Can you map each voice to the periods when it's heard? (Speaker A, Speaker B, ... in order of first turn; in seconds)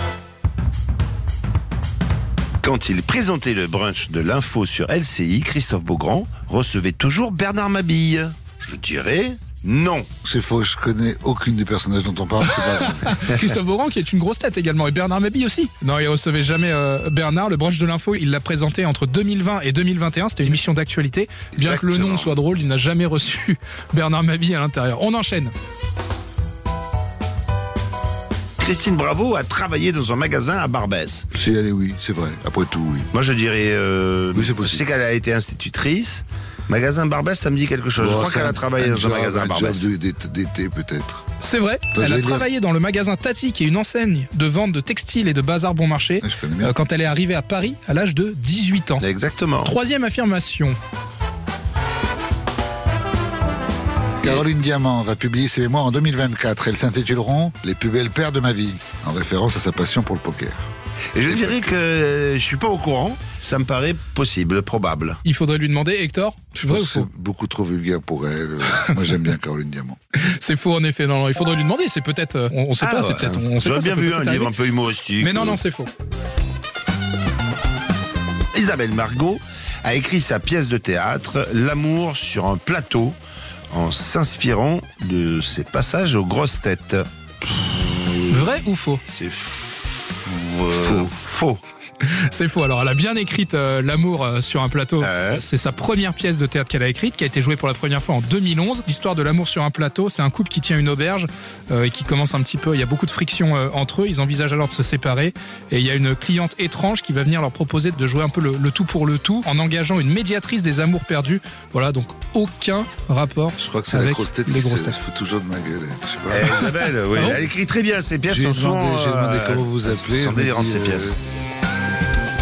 Speaker A: 2.6-10.1, 21.5-22.4, 28.6-31.3, 33.1-39.9, 49.0-49.7, 61.1-65.2, 72.8-75.6, 78.5-83.2, 83.7-91.6, 95.0-95.4, 116.3-121.2
Speaker B: 10.2-13.3, 31.3-33.1, 34.3-34.8, 38.0-41.2, 41.9-42.5, 46.2-46.8, 54.2-60.6, 61.3-61.6, 66.5-70.0, 113.6-116.6, 118.3-121.2
Speaker C: 12.5-25.5, 41.4-49.0, 49.6-50.8, 65.2-67.1, 70.2-74.5, 75.2-75.9, 88.3-89.0, 92.0-115.0, 117.1-117.4